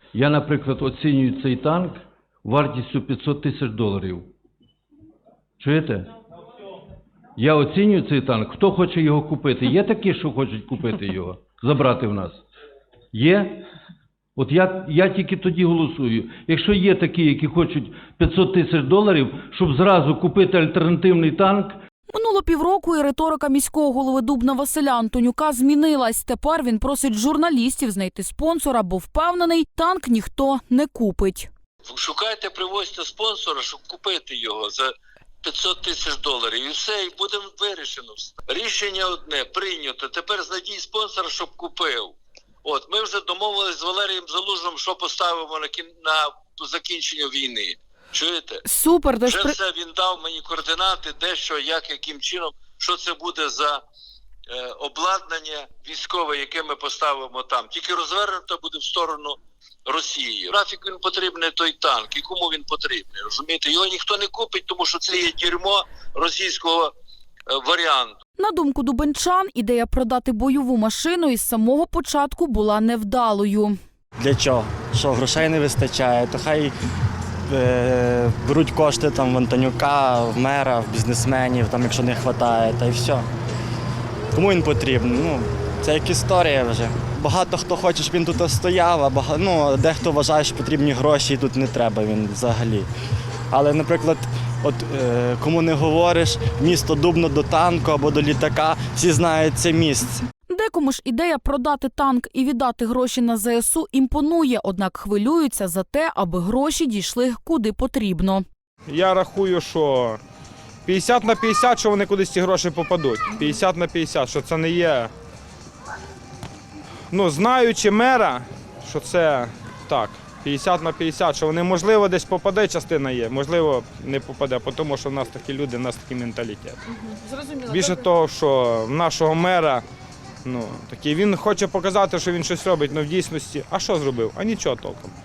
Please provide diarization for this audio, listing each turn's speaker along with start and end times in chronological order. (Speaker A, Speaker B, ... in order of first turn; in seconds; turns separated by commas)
Speaker A: 0.1-4.3, Speaker A: 5.6-6.1, Speaker A: 7.4-12.4, Speaker A: 13.1-13.7, Speaker A: 14.4-21.8, Speaker B: 22.1-31.5, Speaker C: 31.9-34.9, Speaker C: 35.4-48.6, Speaker B: 48.7-49.6, Speaker C: 49.2-53.8, Speaker C: 54.5-66.9, Speaker C: 67.5-68.2, Speaker B: 68.4-73.8, Speaker D: 74.2-76.7, Speaker D: 77.5-83.2, Speaker D: 84.3-92.9, Speaker D: 93.5-100.2, Speaker B: 100.5-108.5, Speaker E: 108.9-110.2, Speaker E: 110.9-115.1, Speaker E: 117.1-129.8, Speaker E: 130.4-135.1